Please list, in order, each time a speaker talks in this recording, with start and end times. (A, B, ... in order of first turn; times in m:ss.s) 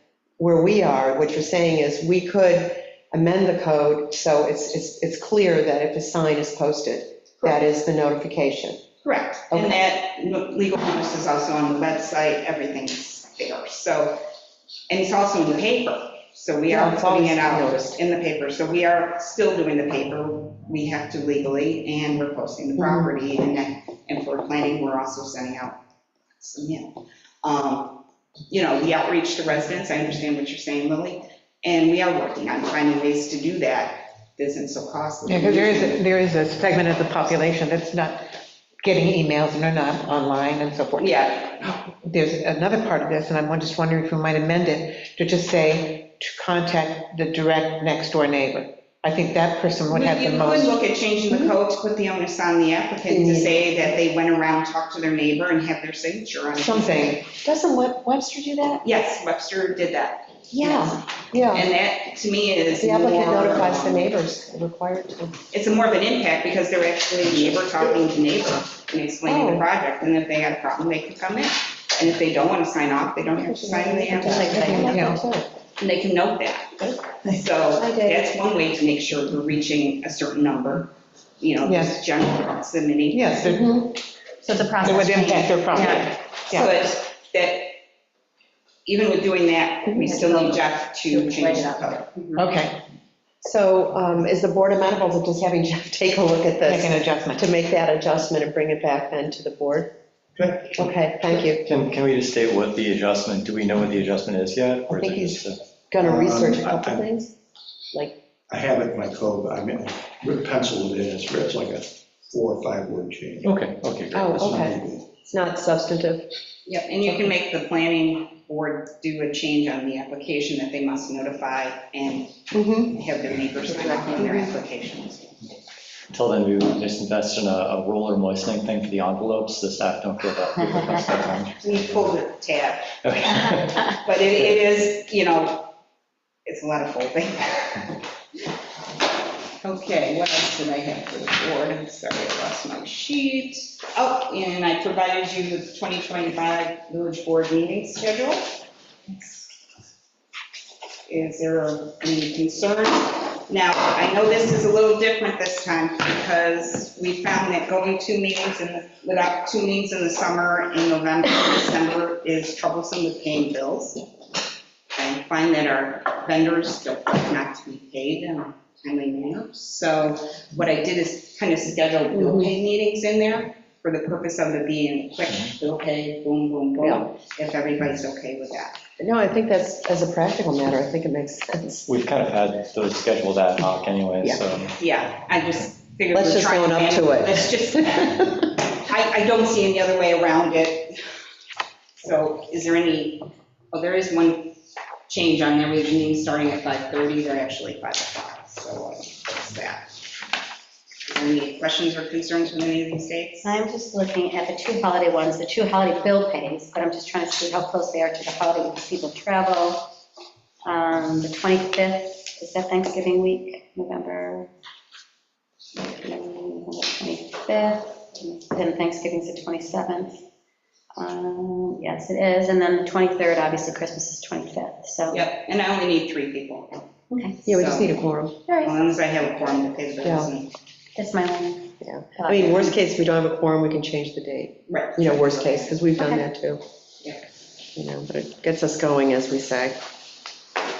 0:00.4-0:08.8 A
0:09.0-0:14.2 B
0:09.5-0:09.8 A
0:14.9-0:25.8 B
0:16.7-0:18.0 A
0:22.8-0:23.1 A
0:26.4-0:26.9 B
0:27.4-0:36.1 B
0:35.3-0:41.3 C
0:40.9-0:41.8 B
0:41.9-0:50.7 C
0:49.9-0:57.2 B
0:53.1-0:53.6 A
0:56.6-0:58.8 A
0:58.8-1:04.1 B
1:00.5-1:01.7 A
1:02.8-1:05.4 A
1:05.5-1:14.8 B
1:09.2-1:09.7 A
1:13.3-1:15.4 A
1:14.1-1:15.1 D
1:15.8-1:23.5 B
1:17.7-1:18.3 A
1:21.6-1:21.9 C
1:23.1-1:23.6 C
1:23.4-1:23.8 A
1:24.4-1:26.1 D
1:24.8-1:26.6 C
1:26.5-1:27.8 B
1:28.8-1:32.1 B
1:29.9-1:30.1 A
1:30.0-1:32.4 D
1:32.4-1:32.8 C
1:33.4-1:39.9 A
1:36.6-1:37.4 C
1:40.4-1:40.8 E
1:40.7-1:41.6 A
1:41.6-1:45.6 F
1:44.9-1:47.3 A
1:46.0-1:47.1 E
1:48.5-1:53.6 E
1:53.4-1:54.6 F
1:54.1-1:56.3 A
1:54.4-1:55.1 E
1:56.7-2:05.3 B
2:02.5-2:02.9 A
2:03.7-2:04.5 D
2:06.1-2:12.1 F
2:11.6-2:12.9 B
2:13.0-2:14.0 F
2:14.0-2:15.7 B
2:16.4-2:17.9 B
2:19.6-2:28.5 B
2:29.1-2:29.5 B
2:31.1-2:44.0 B
2:44.9-2:58.8 B
2:52.1-2:52.5 A
2:56.8-2:57.1 A
2:59.0-3:01.9 A
3:01.9-3:04.7 F
3:04.8-3:08.2 B
3:06.1-3:08.5 A
3:08.8-3:10.9 B
3:12.0-3:14.6 B
3:15.1-3:19.9 B
3:21.1-3:23.5 B
3:23.4-3:29.9 D
3:30.6-3:34.5 D
3:35.8-3:40.2 D
3:40.9-3:45.2 D
3:45.1-3:46.9 B
3:47.1-3:47.4 D
3:47.4-3:48.4 A
3:47.5-3:48.0 B
3:48.5-3:48.7 D
3:48.6-3:50.5 B
3:50.0-3:50.3 A
3:51.0-3:52.7 D
3:51.8-3:56.6 A
3:54.7-3:55.8 B
3:56.0-3:56.2 D
3:57.8-3:59.8 A